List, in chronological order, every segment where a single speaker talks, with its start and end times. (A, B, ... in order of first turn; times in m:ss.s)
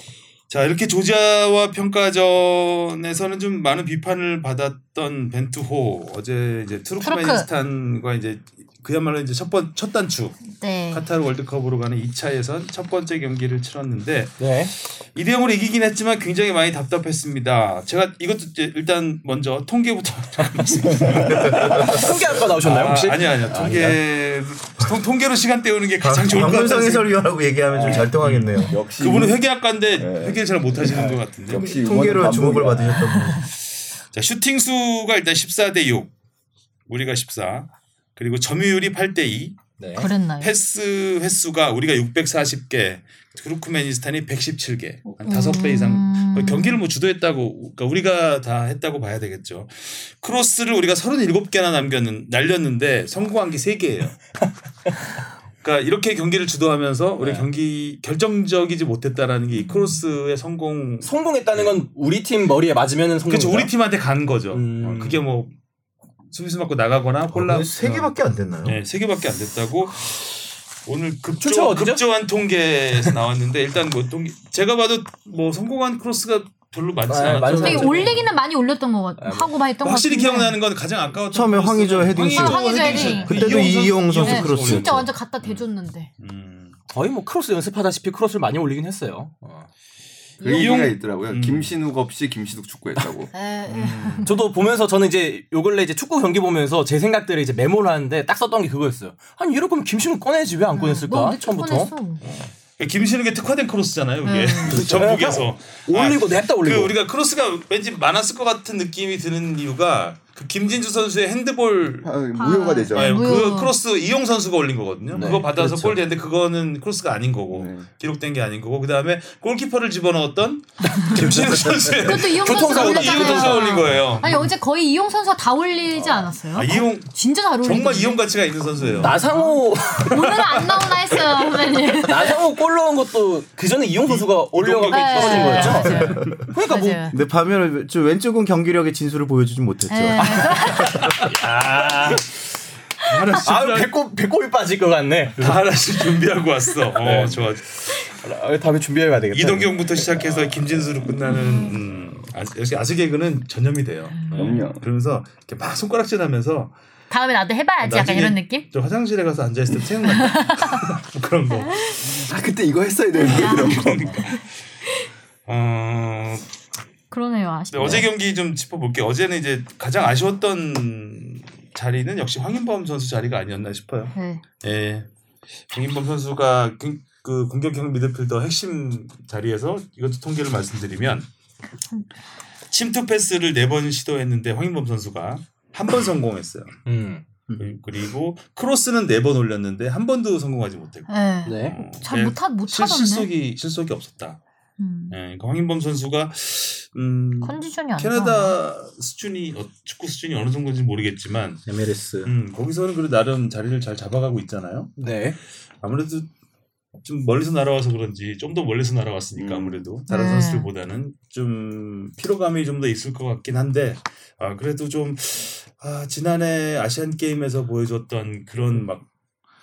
0:00.5-0:27.2 A
0:07.0-0:07.5 B
0:10.6-0:11.0 B
0:14.4-0:14.7 C
0:20.4-0:24.0 C
0:21.4-0:22.1 D
0:26.0-0:28.8 E
0:27.7-0:29.4 D
0:27.8-0:28.1 C
0:27.8-0:31.7 A
0:30.0-0:33.0 D
0:30.8-0:31.3 C
0:31.5-0:33.4 E
0:32.6-0:33.1 C
0:33.0-0:33.4 B
0:33.1-0:36.1 A
0:36.9-0:39.7 A
0:39.8-0:40.1 C
0:40.0-0:40.5 B
0:40.4-0:54.2 A
0:45.1-0:46.8 B
0:54.4-0:55.1 C
0:55.6-1:01.7 A
0:57.2-0:57.5 C
0:59.6-1:00.0 B
1:01.0-1:03.7 C
1:03.3-1:05.5 A
1:04.5-1:05.2 C
1:06.3-1:08.1 A
1:07.3-1:08.8 E
1:08.6-1:18.2 A
1:11.4-1:12.0 C
1:17.1-1:18.3 C
1:17.4-1:18.0 E
1:17.6-1:20.6 B
1:19.2-1:19.5 C
1:19.8-1:25.6 A
1:21.3-1:25.1 E
1:22.2-1:26.1 B
1:26.2-1:26.8 A
1:26.9-1:29.7 C
1:30.4-1:30.8 B
1:30.4-1:33.3 D
1:30.4-1:31.7 A
1:33.3-1:34.3 B
1:33.7-1:34.3 A
1:34.2-1:42.5 C
1:40.7-1:42.2 B
1:42.3-1:52.1 A
1:44.2-1:44.8 B
1:44.7-1:47.0 C
1:44.8-1:45.1 E
1:52.0-1:53.4 D
1:52.4-1:53.7 B
1:52.9-2:04.5 A
1:55.1-1:55.4 D
1:55.1-1:56.0 C
1:57.5-1:57.8 D
2:00.8-2:03.9 C
2:02.0-2:08.2 B
2:05.9-2:06.3 C
2:06.5-2:09.2 A
2:08.9-2:10.3 C
2:09.1-2:12.4 B
2:10.1-2:10.9 A
2:12.0-2:17.2 C
2:14.0-2:16.3 A
2:14.9-2:17.2 B
2:15.6-2:16.4 E
2:17.1-2:20.7 E
2:19.9-2:21.0 B
2:20.2-2:22.4 C
2:21.0-2:21.3 A
2:23.0-2:23.9 A
2:23.4-2:25.6 C
2:25.4-2:27.8 A
2:27.0-2:31.1 C
2:29.3-2:36.8 A
2:31.2-2:31.8 B
2:34.3-2:34.7 C
2:34.3-2:34.8 D
2:37.1-2:38.7 B
2:37.8-2:42.3 A
2:40.2-2:40.8 B
2:41.7-2:42.2 B
2:42.1-2:44.3 D
2:43.2-2:44.5 A
2:43.3-2:44.3 B
2:45.5-2:46.5 A
2:47.1-2:48.1 B
2:47.7-2:55.1 A
2:54.2-2:54.4 B
2:55.7-3:01.3 A
3:02.7-3:06.8 A
3:06.8-3:07.2 C
3:07.5-3:11.1 A
3:11.1-3:13.3 B
3:11.5-3:11.8 C
3:11.6-3:14.4 A
3:14.8-3:15.2 B
3:15.1-3:21.7 A
3:17.4-3:18.6 B
3:21.7-3:22.3 E
3:22.2-3:25.0 A
3:25.0-3:25.4 C
3:25.8-3:26.3 A
3:27.0-3:39.1 A
3:29.4-3:29.9 D
3:30.1-3:30.7 B